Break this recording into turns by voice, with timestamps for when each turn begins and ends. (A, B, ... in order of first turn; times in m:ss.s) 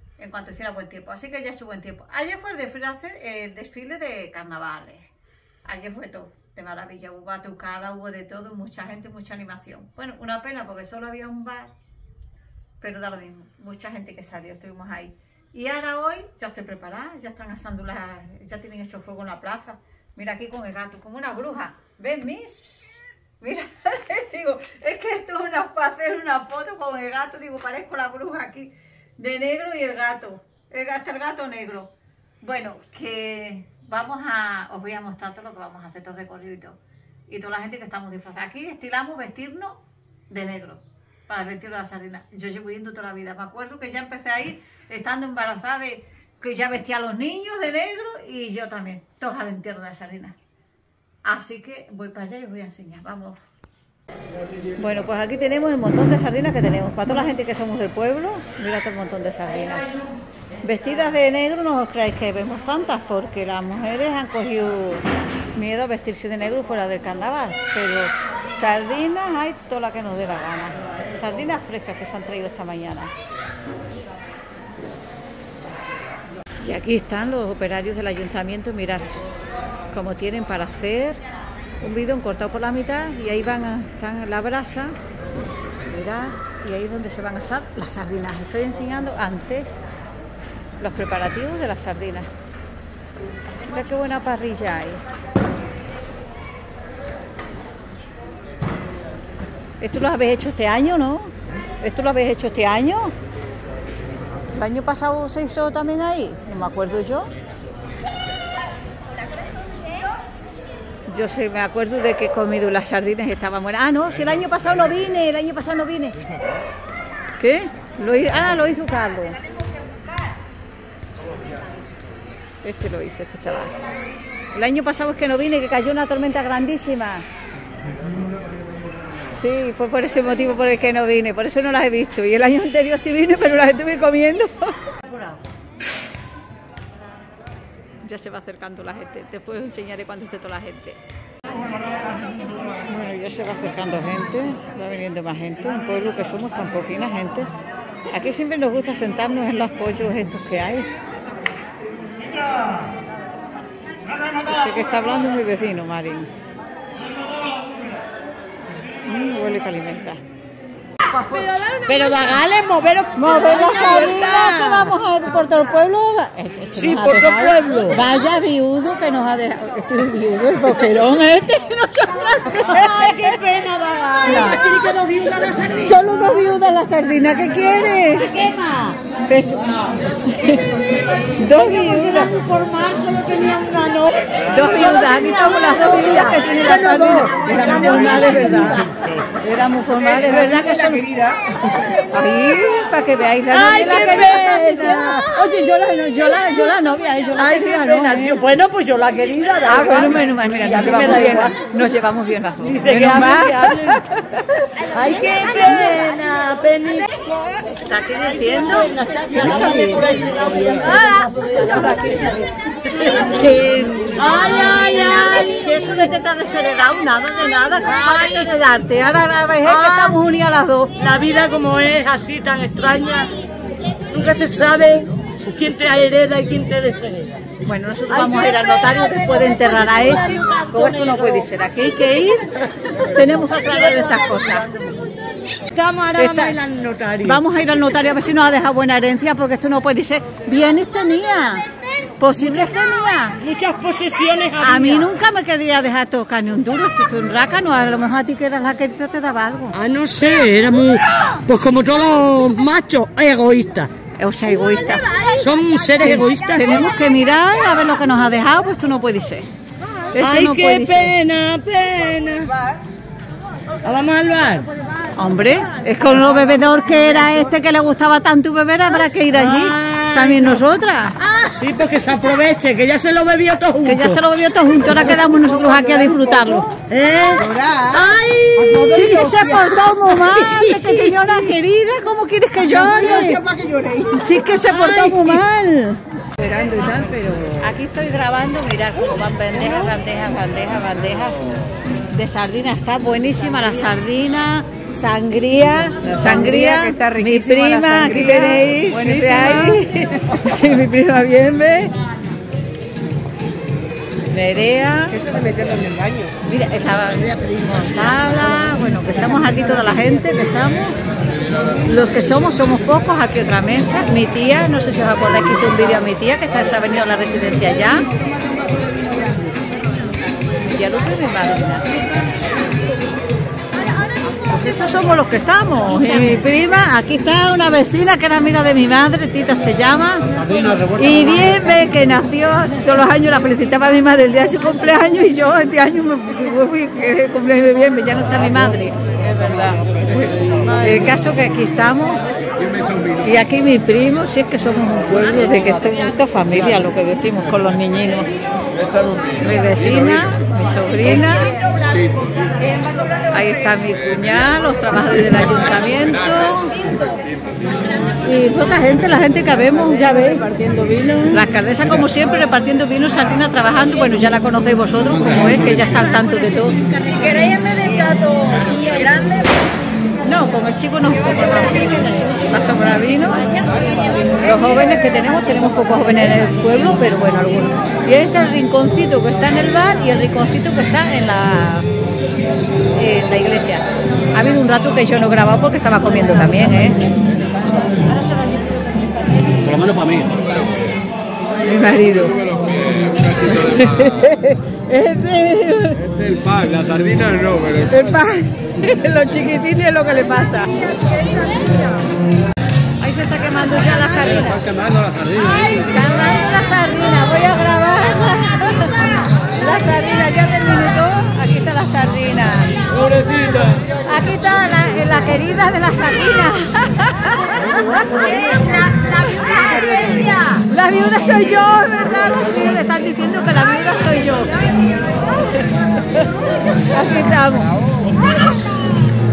0:00.2-0:05.1 A
0:05.7-0:11.7 A
0:12.8-0:31.9 A
0:32.4-0:36.8 A
0:37.3-0:39.8 A
0:40.3-0:50.4 A
0:51.2-0:53.4 A
0:54.8-0:59.9 A
1:00.6-1:13.1 A
1:16.6-1:19.1 A
1:19.9-1:21.2 A
1:21.8-1:25.0 A
1:25.9-1:29.8 A
1:30.8-1:32.3 A
1:33.6-1:35.0 A
1:39.8-1:43.1 A
1:44.5-1:47.3 A
1:51.1-1:56.3 A
1:57.4-1:59.4 A
2:02.6-2:03.8 A
2:04.5-2:07.2 A
2:09.4-2:14.9 A
2:15.0-2:15.4 B
2:18.0-2:21.0 A
2:22.8-2:27.5 A
2:28.1-2:30.9 A
2:34.4-2:36.3 A
2:39.1-2:40.2 A
2:41.1-2:45.0 B
2:43.2-2:53.3 A
2:46.8-2:48.0 B
2:52.6-2:56.0 B
2:54.3-2:54.6 A
2:55.8-2:58.3 A
2:58.2-2:59.0 B
2:59.3-3:00.7 A
3:01.4-3:02.3 A
3:01.5-3:08.9 B
3:04.5-3:08.9 A
3:09.4-3:11.1 A
3:11.7-3:18.4 A
3:13.5-3:15.3 B
3:17.4-3:21.6 B
3:19.6-3:24.7 A
3:22.6-3:24.0 B
3:24.8-3:27.3 B
3:27.8-3:30.0 A
3:28.2-3:32.3 B
3:30.8-3:32.5 A
3:32.9-3:33.4 B
3:33.1-3:40.9 A
3:34.1-3:36.1 B
3:37.8-3:38.6 B
3:39.6-3:40.2 B
3:41.0-3:43.4 B
3:43.9-3:47.4 B
3:47.6-3:52.4 A
3:48.1-3:51.5 B
3:53.0-3:54.8 A
3:53.4-3:55.0 B
3:55.7-3:57.4 B
3:56.2-3:56.6 A
3:57.2-4:01.6 A
4:02.2-4:03.4 A
4:02.4-4:02.7 B
4:03.4-4:05.1 B
4:04.6-4:09.8 A
4:09.7-4:13.9 B
4:14.2-4:15.2 A
4:15.2-4:16.7 B
4:16.0-4:19.5 A
4:20.2-4:21.2 A
4:20.2-4:22.6 B
4:23.8-4:24.7 B
4:25.2-4:31.2 A
4:29.3-4:30.6 B
4:31.4-4:34.2 B
4:33.8-4:36.8 A
4:36.9-4:39.1 B
4:38.7-4:43.5 A
4:40.3-4:41.1 B
4:43.2-4:44.0 C
4:44.1-4:51.5 A
4:44.7-4:45.3 B
4:52.1-5:01.9 A
4:56.1-4:56.9 B
4:59.0-4:59.7 B
5:04.3-5:05.3 A
5:05.4-5:06.2 B
5:05.4-5:06.2 C
5:06.4-5:11.0 A
5:11.8-5:18.1 A
5:20.6-5:22.2 A
5:24.5-5:30.2 A
5:30.5-5:30.9 B
5:30.9-5:42.2 A
5:40.7-5:41.2 B
5:43.0-5:48.3 A
5:49.2-5:51.6 A
5:51.6-5:53.3 B
5:53.3-5:56.8 A
5:58.2-6:00.5 A
6:00.6-6:00.9 C
6:00.6-6:01.2 B
6:01.2-6:06.8 A
6:07.0-6:09.6 B
6:10.2-6:13.5 A
6:14.4-6:21.9 A
6:23.0-6:27.0 A
6:29.4-6:30.3 B
6:31.6-6:32.5 A
6:33.1-6:36.4 A
6:36.4-6:37.7 C
6:37.8-6:41.0 A
6:43.0-6:44.8 A
6:44.9-6:45.3 C
6:45.2-6:45.6 B
6:45.4-6:52.9 A
6:53.7-6:58.8 A
6:58.0-7:00.6 B
6:59.7-7:04.5 A
7:06.8-7:07.8 A